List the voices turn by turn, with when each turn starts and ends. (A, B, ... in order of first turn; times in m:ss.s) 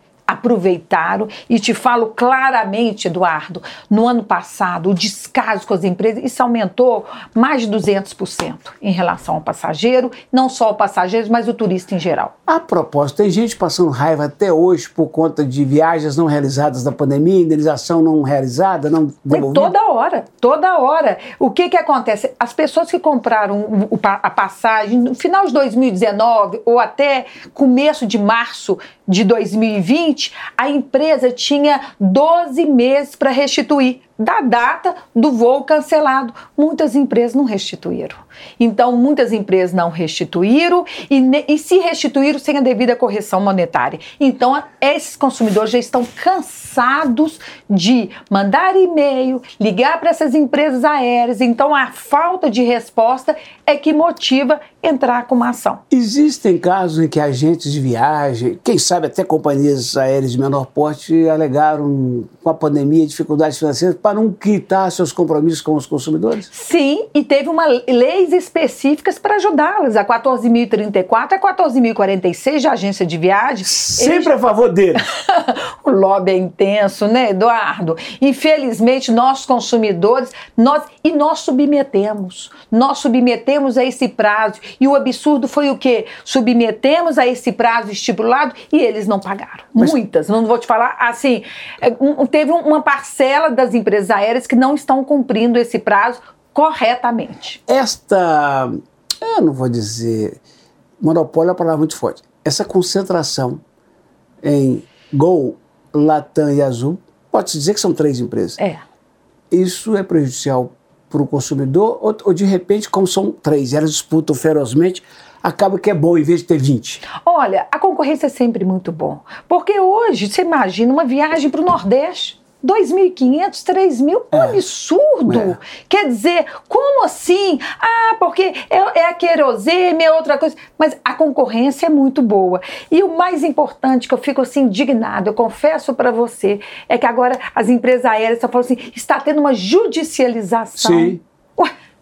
0:00.3-0:12.3 A
0:12.5-0:19.7 B
0:19.3-0:55.8 A
0:55.9-1:06.5 B
1:06.5-1:14.3 A
1:13.6-1:15.0 B
1:15.1-1:37.6 A
1:37.7-1:40.4 B
1:41.0-1:43.6 B
1:44.4-1:48.6 B
1:49.5-1:57.0 B
1:57.1-2:21.7 A
2:04.3-2:04.6 B
2:05.3-2:05.6 B
2:20.8-2:21.2 B